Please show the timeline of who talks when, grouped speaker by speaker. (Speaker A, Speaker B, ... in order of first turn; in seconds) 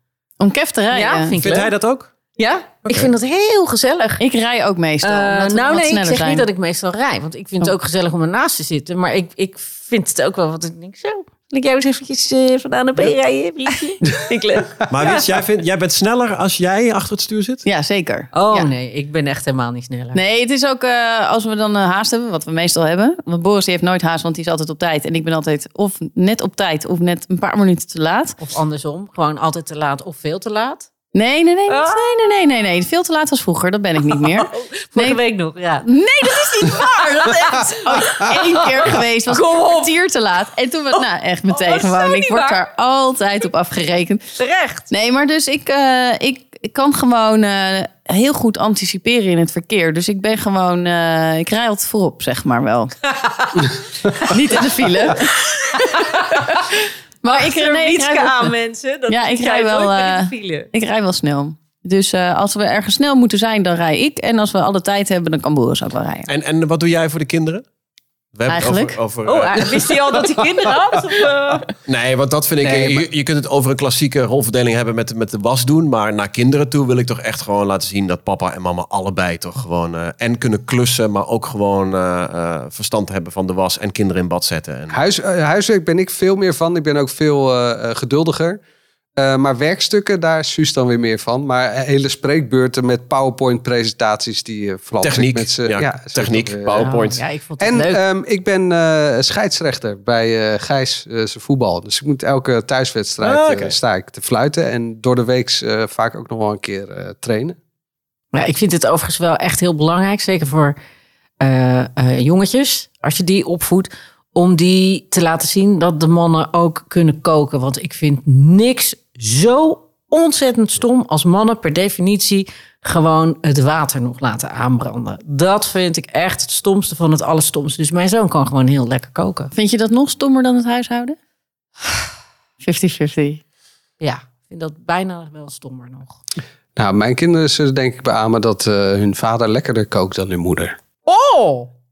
Speaker A: 0.4-1.4, 4.2-6.5, 17.6-18.7, 20.1-28.4, 31.1-35.2, 35.8-44.2, 44.9-52.9, 54.0-58.5, 59.1-66.3, 68.5-69.0, 129.5-131.2, 132.6-133.4
Speaker B: 0.9-1.7, 2.4-4.2, 5.0-15.3, 18.3-20.2, 28.4-30.9, 31.7-32.0, 34.1-39.9, 41.5-42.6, 44.4-44.9, 53.1-53.7, 55.1-56.6, 57.3-60.7, 69.2-71.7, 96.7-98.0, 108.3-110.8, 111.4-129.5, 134.0-136.2, 141.1-141.7
Speaker C: 1.4-2.1, 14.9-17.6, 66.3-67.6, 68.3-69.9, 71.8-85.0, 95.0-97.2, 103.2-103.8
Speaker D: 72.6-73.1, 84.9-88.6, 89.2-96.9, 97.6-107.6, 136.8-140.8